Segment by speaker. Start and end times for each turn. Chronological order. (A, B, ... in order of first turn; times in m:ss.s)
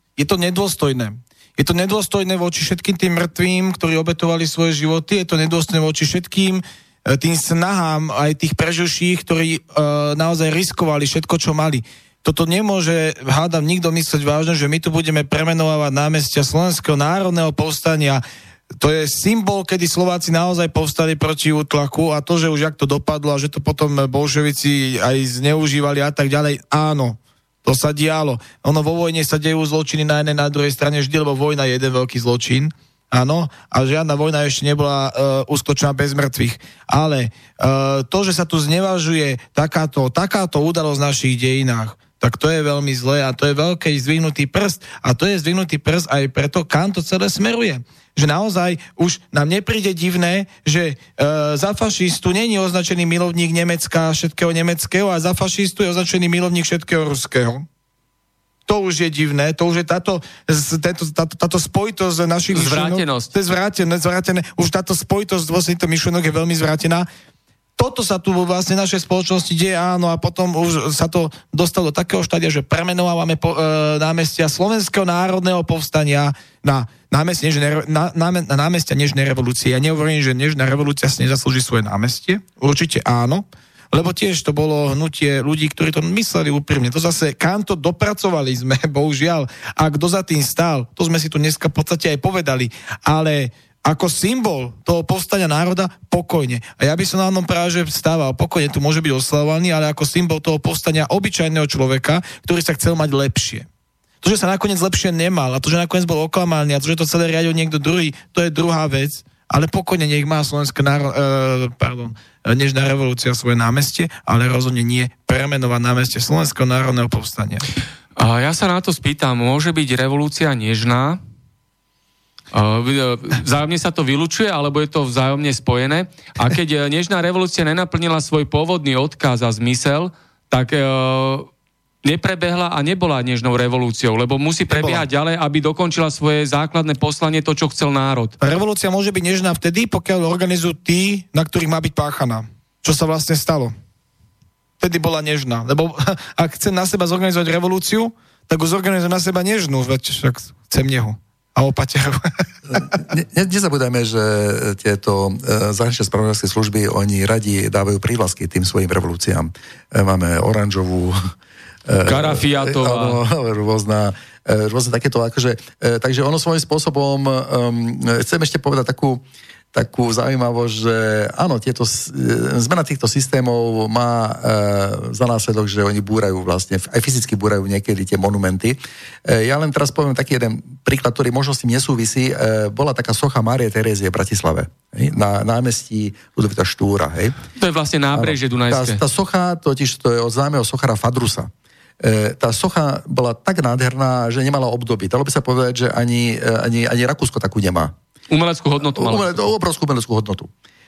0:00.2-0:18.2 A
0:18.8-0:57.6 A
0:58.7-1:07.1 A
1:02.5-1:03.3 B
1:07.8-1:43.7 A
1:44.2-1:57.7 A
1:58.2-2:01.2 B
2:02.5-2:11.5 B
2:12.0-2:18.4 B
2:14.7-2:15.0 A
2:18.4-2:23.7 A
2:24.8-2:32.9 A
2:32.7-2:41.3 C
2:41.8-3:07.4 C
2:42.0-2:43.2 B
3:07.6-3:09.0 B
3:08.1-3:11.5 C
3:12.0-3:17.9 C
3:18.3-3:19.5 B
3:18.8-3:20.5 C